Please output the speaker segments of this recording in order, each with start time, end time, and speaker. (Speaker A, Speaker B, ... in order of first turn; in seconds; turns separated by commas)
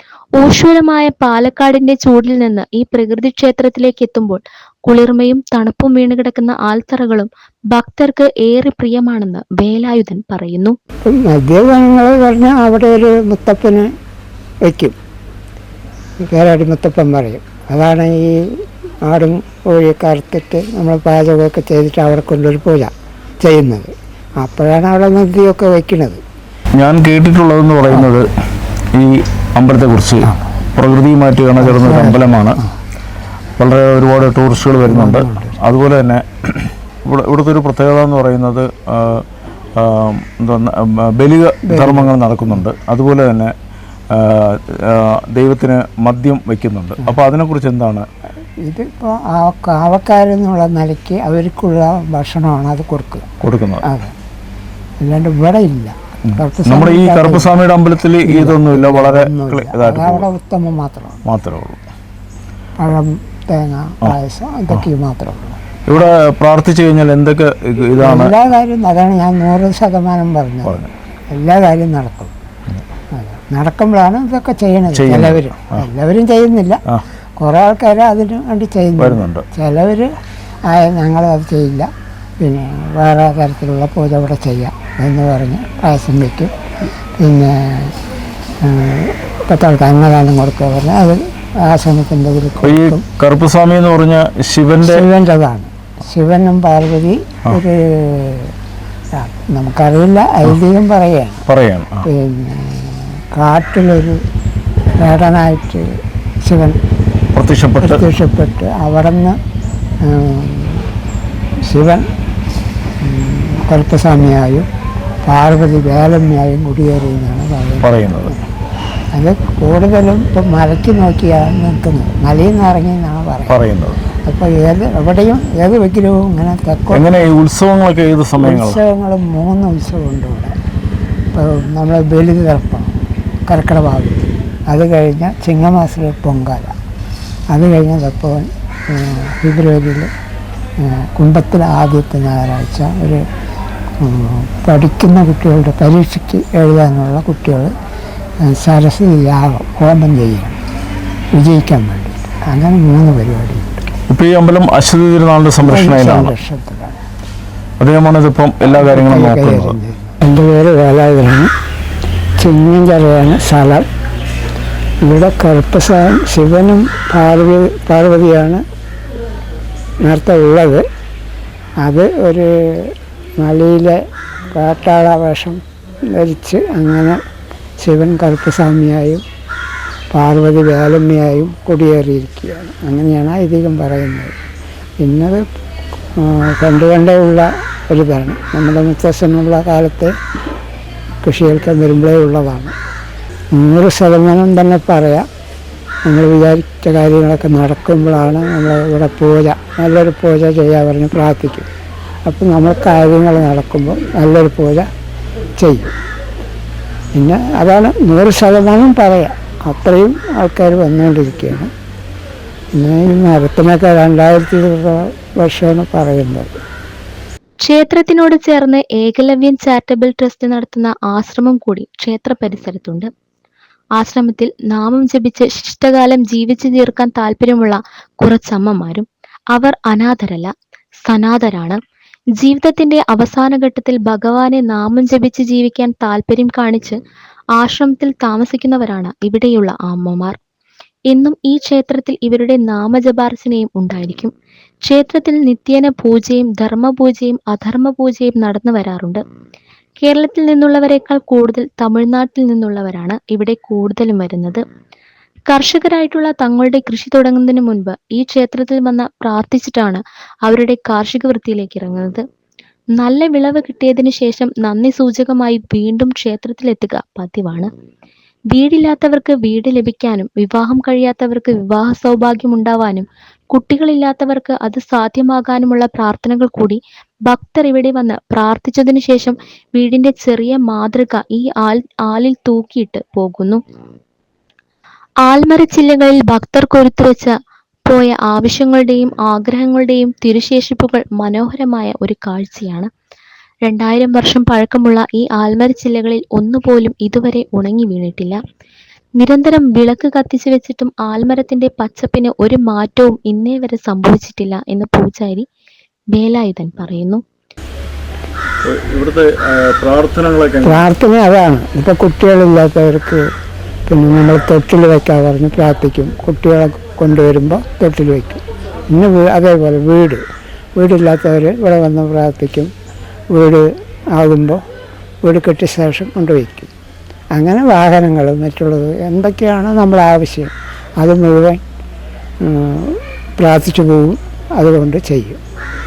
Speaker A: 0.4-10.8, Speaker B: 11.0-13.9, Speaker B: 14.6-14.9, Speaker B: 16.2-26.2, Speaker C: 26.8-28.3, Speaker C: 28.9-32.6, Speaker B: 31.6-32.7, Speaker C: 33.6-39.2, Speaker B: 34.9-35.6, Speaker C: 39.8-43.5, Speaker B: 41.7-42.6, Speaker C: 44.1-48.1, Speaker B: 48.6-53.3, Speaker C: 53.4-53.8, Speaker B: 53.8-54.1, Speaker B: 55.0-57.5, Speaker C: 56.3-60.3, Speaker B: 58.2-61.2, Speaker C: 61.2-61.8, Speaker B: 62.8-66.1, Speaker C: 65.9-68.3, Speaker B: 68.0-72.3, Speaker C: 70.6-70.9, Speaker B: 73.1-76.8, Speaker C: 74.9-75.8, Speaker B: 77.4-80.1, Speaker C: 79.0-79.4, Speaker B: 80.7-81.9, Speaker B: 82.4-86.5, Speaker B: 87.2-87.9, Speaker B: 88.6-93.0, Speaker C: 92.6-95.0, Speaker B: 94.8-98.5, Speaker B: 99.1-101.4, Speaker C: 101.5-102.1, Speaker B: 102.0-104.2, Speaker B: 105.0-105.9, Speaker B: 106.4-106.8, Speaker C: 107.3-108.0, Speaker B: 107.8-109.3, Speaker B: 110.0-110.9, Speaker B: 111.7-112.1, Speaker B: 113.0-114.7, Speaker B: 115.2-118.5, Speaker C: 117.8-118.3, Speaker B: 119.1-123.6, Speaker C: 123.5-124.0, Speaker B: 124.2-127.3, Speaker C: 126.9-128.8, Speaker B: 128.4-130.5, Speaker B: 131.3-132.9, Speaker B: 133.5-136.7, Speaker B: 137.5-140.1, Speaker B: 140.8-143.2, Speaker B: 144.0-147.7, Speaker B: 148.4-150.6, Speaker B: 151.3-153.9, Speaker C: 154.1-156.3, Speaker B: 155.6-157.0, Speaker C: 157.8-159.8, Speaker B: 158.6-161.5, Speaker B: 162.4-163.8, Speaker B: 165.0-168.6, Speaker B: 170.0-170.8, Speaker B: 171.8-174.0, Speaker B: 174.5-175.6, Speaker B: 176.1-177.2, Speaker B: 177.8-179.2, Speaker B: 180.1-184.3, Speaker B: 185.0-185.4, Speaker B: 186.2-190.1, Speaker B: 191.2-192.7, Speaker B: 193.5-195.3, Speaker B: 196.1-201.7, Speaker B: 202.3-204.9, Speaker B: 205.6-205.9, Speaker B: 207.1-211.7, Speaker B: 212.8-216.5, Speaker A: 217.6-223.1, Speaker A: 224.0-230.5, Speaker A: 231.0-231.8, Speaker A: 232.4-237.0, Speaker A: 237.6-240.4, Speaker A: 241.1-244.3, Speaker A: 244.8-249.2, Speaker A: 250.0-254.6, Speaker A: 255.5-262.2, Speaker A: 263.0-267.7, Speaker A: 268.5-283.6, Speaker A: 285.2-287.3, Speaker A: 287.9-292.9, Speaker A: 293.6-298.4, Speaker A: 299.2-305.4, Speaker A: 306.1-307.2, Speaker C: 308.6-310.9, Speaker B: 310.6-313.2, Speaker B: 313.9-318.4, Speaker B: 318.9-320.2, Speaker B: 320.8-322.7, Speaker B: 323.3-324.6, Speaker B: 325.2-326.7, Speaker B: 327.3-331.6, Speaker B: 332.4-335.4